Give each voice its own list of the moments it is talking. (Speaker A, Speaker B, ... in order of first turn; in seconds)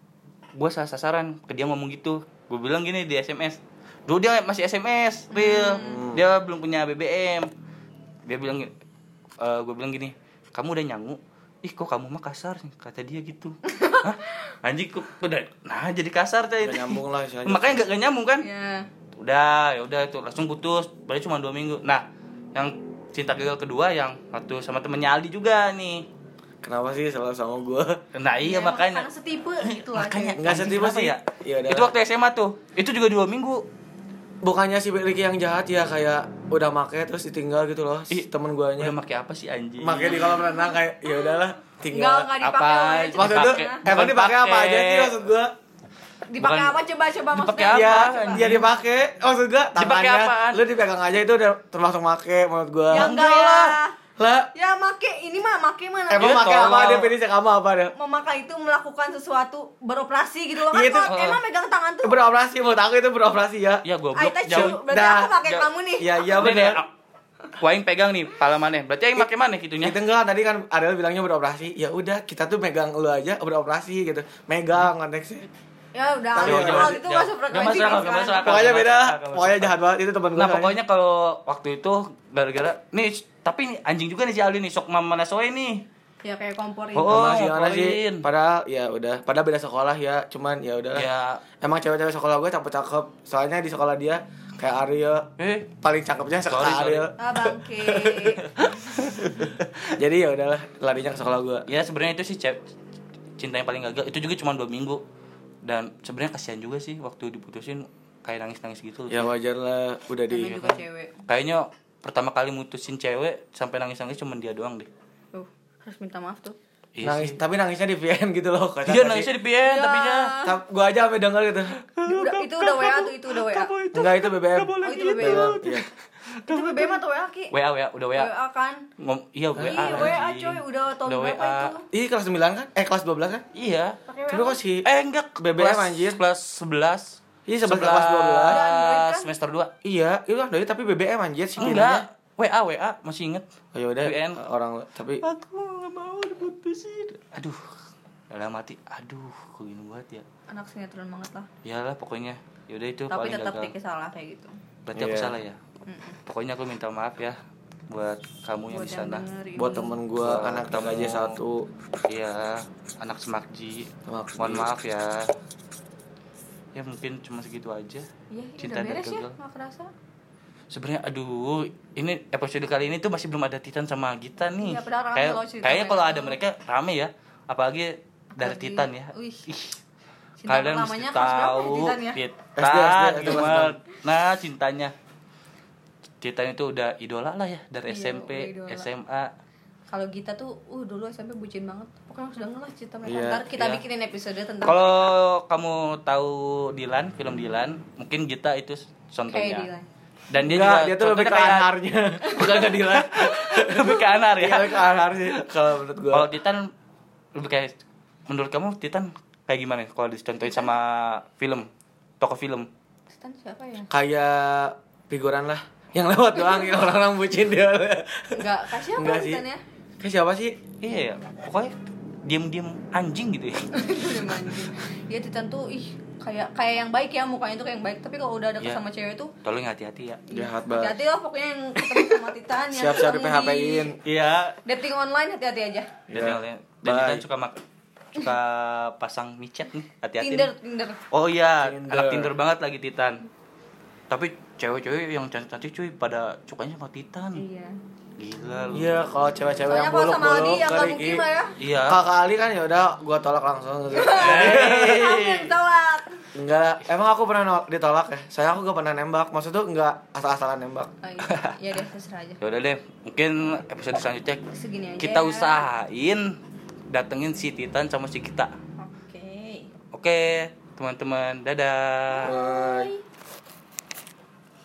Speaker A: 0.5-7.5, 8.3-8.7, 9.4-18.4, 19.2-22.0, 22.5-26.1, 28.1-29.1, 29.6-33.6, 38.1-40.4, 42.4-45.3, 46.4-46.8, 47.3-48.7, 49.8-50.6, 52.9-53.8, 56.2-57.1, 61.1-61.4, 63.8-64.8, 66.3-66.9, 67.6-70.0, 76.4-79.8, 80.3-85.8, 86.9-88.2, 90.9-91.4, 95.4-95.7, 96.5-97.1, 98.5-99.7, 101.7-102.6, 103.4-105.0, 105.6-109.3, 110.4-114.9, 116.9-117.4, 118.8-120.3, 121.8-127.0, 127.5-128.3, 129.0-131.7, 133.5-134.0, 134.8-139.7, 141.6-143.5, 144.0-144.4, 145.2-147.6, 148.3-150.2, 151.6-153.7, 154.8-155.6, 156.3-157.4, 157.9-159.2, 160.2-161.4, 162.1-165.3, 166.7-168.1, 168.6-169.3, 170.7-179.8, 180.5-184.9, 186.2-189.3, 193.5-193.8, 194.6-199.7, 200.3-201.7, 202.4-204.8, 206.1-206.7, 207.3-207.7, 208.3-211.7, 212.2-212.7, 220.8-224.6, 229.4-230.2, 231.8-232.2, 234.0-234.6, 236.1-237.6, 238.1-240.5, 241.1-243.2, 244.1-247.4, 248.2-249.1, 251.6-252.0, 254.1-255.5, 261.2-261.5, 262.4-264.4, 265.0-266.3, 266.9-268.5, 269.9-272.4
Speaker B: 5.3-6.1, 13.7-14.1, 18.4-18.9, 28.4-30.4, 40.1-40.8, 41.9-43.8, 46.3-48.5, 52.9-53.9, 54.5-57.0, 58.0-62.2, 64.1-66.2, 75.9-78.6, 86.2-87.3, 97.2-98.4, 110.3-111.2, 115.3-116.5, 119.6-120.5, 122.0-123.7, 124.8-125.6, 126.5-127.5, 128.1-128.8, 129.6-131.8, 134.1-134.6, 138.5-139.3, 150.5-151.5, 153.1-154.5, 155.8-156.2, 158.7-160.0, 168.3-169.9, 174.5-176.4, 178.3-179.4, 180.4-182.2, 187.9-188.9, 189.9-195.1, 199.3-199.8, 202.2-203.1, 210.4-210.7, 213.1-213.9, 216.4-216.7, 218.3-219.6, 223.7-229.3, 230.3-233.9, 234.6-235.9, 240.2-241.0, 247.3-247.8, 249.7-251.5, 253.9-256.2, 261.0-262.4, 264.5-265.7, 268.8-269.7, 272.1-273.0
Speaker C: 5.8-6.2, 16.6-17.8, 26.6-28.0, 30.4-31.9, 34.4-38.9, 39.8-42.3, 43.1-45.5, 47.7-53.1, 54.2-54.5, 56.1-57.9, 60.6-61.1, 62.0-63.8, 64.5-66.8, 69.8-75.5, 76.3-77.0, 78.3-80.7, 87.1-91.1, 91.6-95.3, 95.8-98.4, 99.2-101.7, 109.1-110.6, 117.0-119.3, 120.4-121.8, 123.9-125.8, 129.6-130.2, 131.9-133.4, 134.3-134.8, 135.4-136.2, 137.5-138.6, 139.8-142.0, 143.7-145.2, 154.9-155.3, 159.6-161.7, 164.1-164.7, 182.6-183.8, 193.1-193.5, 200.4-206.3, 213.9-219.4, 220.0-220.6, 230.3-231.0, 232.7-234.0, 236.1-237.2, 241.6-242.3, 248.7-251.2, 251.9-255.1, 256.3-260.9, 272.2-272.9